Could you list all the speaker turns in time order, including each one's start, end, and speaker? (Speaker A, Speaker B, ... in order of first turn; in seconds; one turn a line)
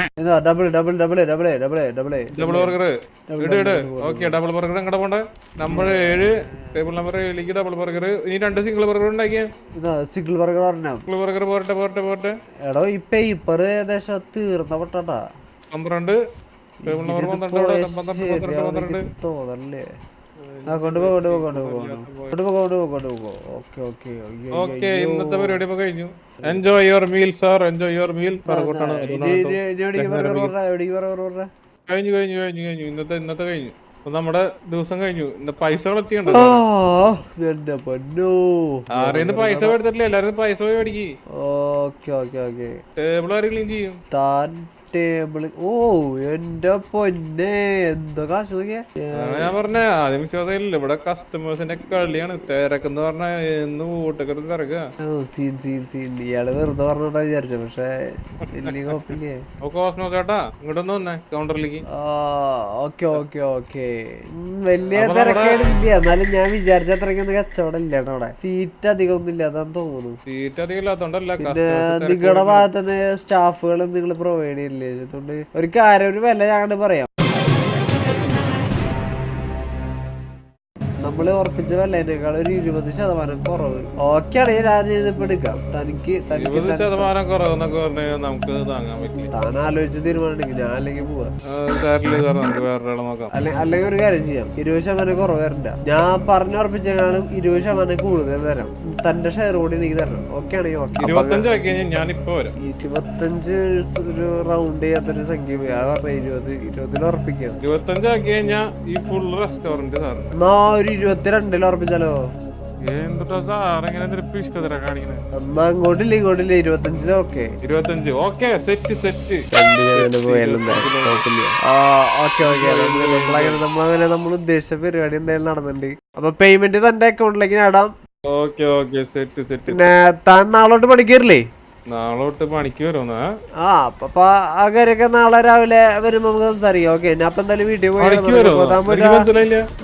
Speaker A: 0.2-2.8
Speaker B: 2.3-9.5
Speaker A: 3.3-4.4
Speaker A: 5.7-6.7
Speaker A: 9.8-11.1
Speaker B: 11.1-12.3
Speaker A: 12.7-15.2
Speaker B: 15.7-16.2
Speaker A: 16.8-19.9
Speaker B: 16.9-19.0
Speaker B: 20.4-22.4
Speaker A: 20.7-25.6
Speaker B: 24.6-30.5
Speaker A: 28.5-31.5
Speaker B: 31.9-36.6
Speaker A: 36.3-39.8
Speaker B: 38.9-41.1
Speaker A: 41.4-42.7
Speaker B: 43.0-44.0
Speaker A: 44.1-49.5
Speaker B: 49.1-54.8
Speaker A: 55.1-57.9
Speaker B: 58.5-61.8
Speaker A: 58.5-59.4
Speaker A: 61.9-70.2
Speaker B: 64.9-65.7
Speaker B: 70.3-72.7
Speaker A: 71.4-77.1
Speaker A: 81.0-87.1
Speaker B: 86.3-89.3
Speaker A: 89.3-91.3
Speaker B: 91.5-93.3
Speaker A: 93.3-101.5
Speaker B: 101.0-102.5
Speaker A: 102.6-107.6
Speaker B: 107.6-110.3
Speaker A: 110.4-112.2
Speaker B: 112.8-115.2
Speaker A: 115.3-117.5
Speaker B: 117.6-119.4
Speaker A: 119.5-127.9
Speaker B: 120.0-121.2
Speaker B: 122.4-123.6
Speaker B: 128.3-129.8
Speaker A: 129.7-131.4
Speaker B: 131.9-133.3
Speaker A: 133.6-139.3
Speaker B: 138.0-139.6